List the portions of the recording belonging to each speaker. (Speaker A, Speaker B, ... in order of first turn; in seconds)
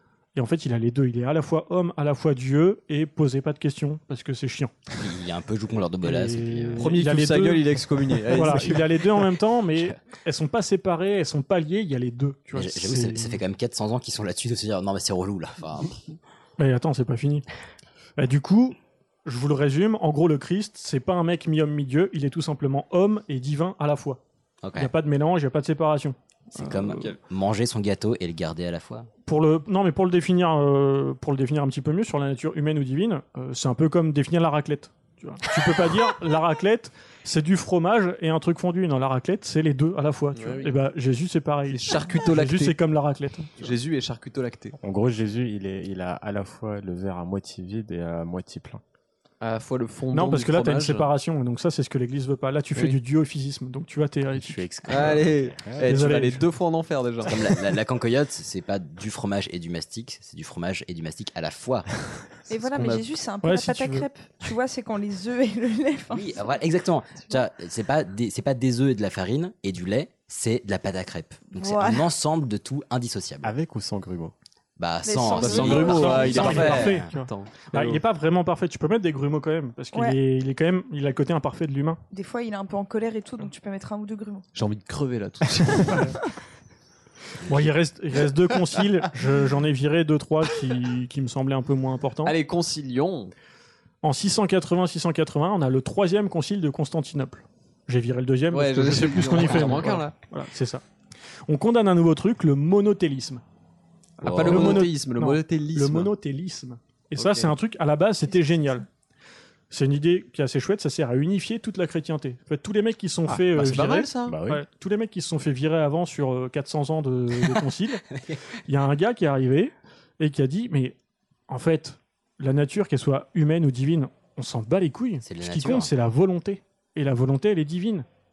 Speaker A: 0.3-4.7, 6.0-13.4, 16.6-17.5, 18.2-24.2, 24.8-27.1, 29.3-43.8, 50.1-55.3, 55.8-56.4, 63.4-64.1, 75.5-82.0, 85.8-86.2, 87.5-92.4, 94.0-100.8, 101.5-103.4, 104.3-108.8, 109.7-118.1, 118.7-121.0, 121.5-128.1
Speaker B: 5.0-6.9, 12.5-16.0, 24.6-24.9, 26.6-29.1, 57.3-61.9, 66.1-73.5, 74.8-77.1, 104.2-104.9, 125.2-125.9
Speaker C: 6.8-9.2, 40.4-40.7, 41.7-42.8, 43.6-44.8, 49.4-51.1, 54.9-57.4, 62.6-63.1, 75.4-78.0, 84.5-86.1, 92.2-93.3, 98.5-100.2, 104.2-106.1, 107.2-107.5, 113.6-114.4
Speaker D: 44.8-48.8, 54.4-55.9, 73.4-74.3, 113.3-114.6
Speaker E: 62.5-66.3, 71.6-72.1, 75.0-76.7, 82.1-84.5